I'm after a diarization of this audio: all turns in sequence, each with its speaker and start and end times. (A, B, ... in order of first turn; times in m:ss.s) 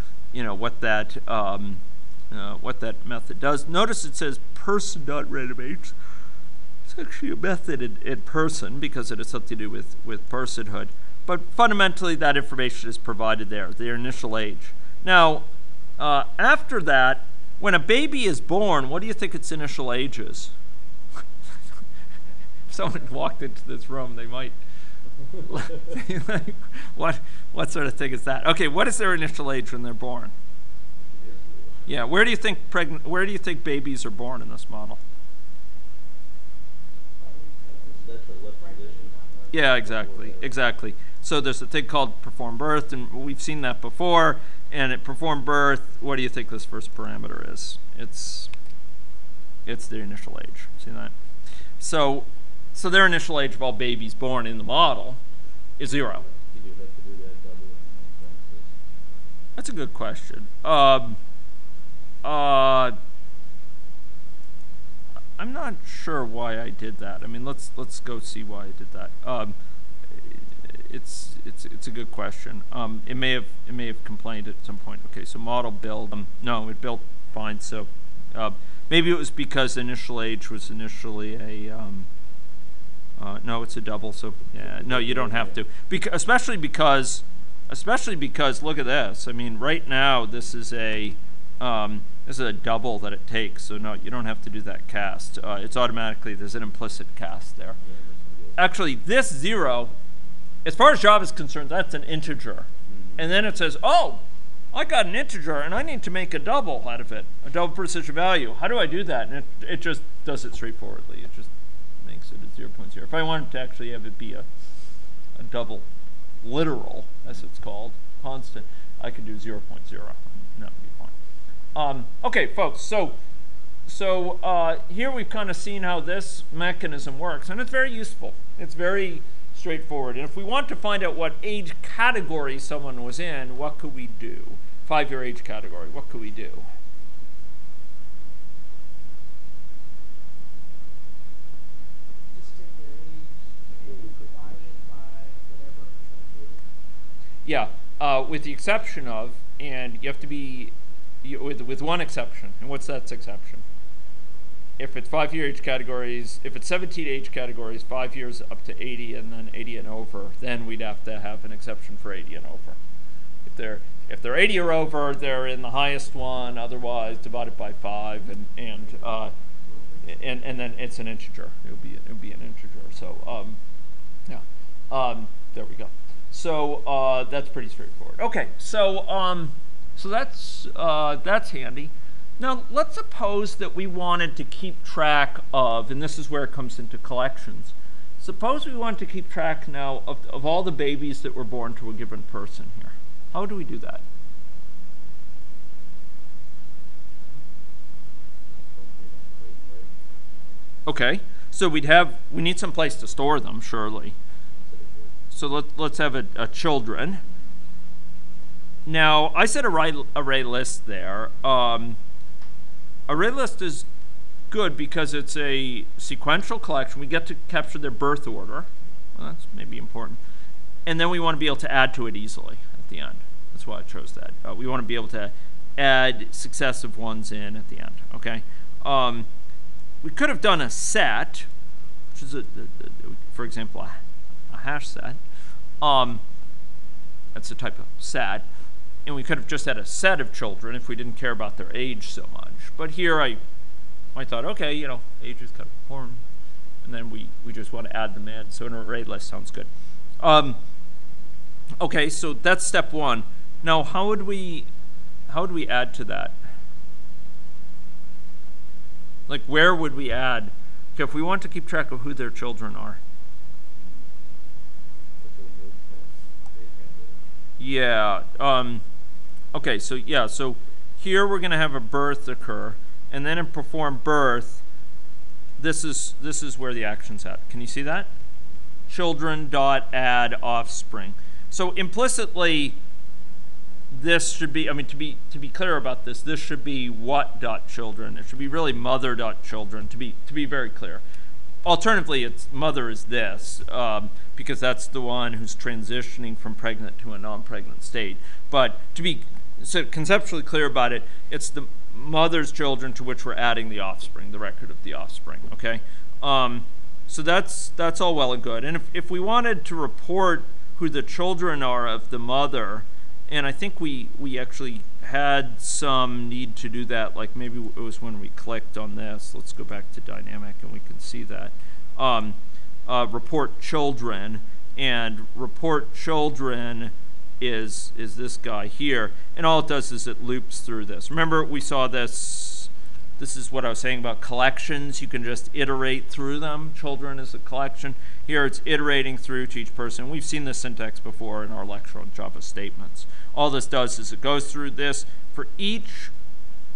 0:00.3-0:06.0 A
0:06.9-0:20.5 A
0:22.7-0:24.6 A
0:25.4-0:30.3 A
0:31.0-0:31.8 B
0:31.2-0:31.5 C
0:31.9-0:35.0 A
0:37.2-0:39.8 C
0:37.8-0:40.6 B
0:39.5-0:48.5 A
0:49.7-0:51.1 A
0:51.8-0:55.2 A
0:55.8-0:56.2 A
0:56.5-0:58.7 B
0:59.6-1:01.2 A
1:02.2-1:03.0 A
1:05.4-1:09.6 A
1:10.1-1:22.1 A
1:23.2-1:37.8 A
1:24.4-1:25.6 B
1:37.8-1:38.6 B
1:38.6-1:39.9 A
1:40.6-1:51.5 A
1:42.9-1:43.3 B
1:52.0-1:54.5 A
1:55.4-1:55.9 A
1:56.4-2:01.1 A
2:01.8-2:03.2 A
2:03.9-2:16.7 A
2:22.3-2:26.7 C
2:23.8-2:24.8 B
2:27.4-2:33.6 A
2:34.8-2:42.8 A
2:43.5-2:49.3 A
2:49.6-2:50.1 C
2:50.0-2:53.6 A
2:54.3-3:14.0 A
3:18.5-3:20.0 B
3:20.9-3:24.2 A
3:24.5-3:25.2 B
3:25.3-3:27.2 A
3:27.2-3:27.6 B
3:28.9-3:32.0 A
3:33.1-3:33.9 A
3:34.5-3:40.2 A
3:40.9-3:49.3 A
3:50.0-3:51.5 A
3:52.1-3:55.2 A
3:55.8-3:56.2 A
3:57.4-3:58.5 A
3:59.1-4:03.4 A
4:04.2-4:06.2 A
4:06.8-4:09.7 A
4:10.2-4:10.6 A
4:11.8-4:14.7 A
4:15.3-4:16.4 A
4:19.3-4:23.0 A
4:23.8-4:24.3 B
4:25.2-4:27.2 B
4:27.6-4:28.8 A
4:29.5-4:34.6 A
4:35.6-4:38.1 A
4:38.9-4:42.8 A
4:43.9-4:51.0 A
4:51.6-5:46.1 A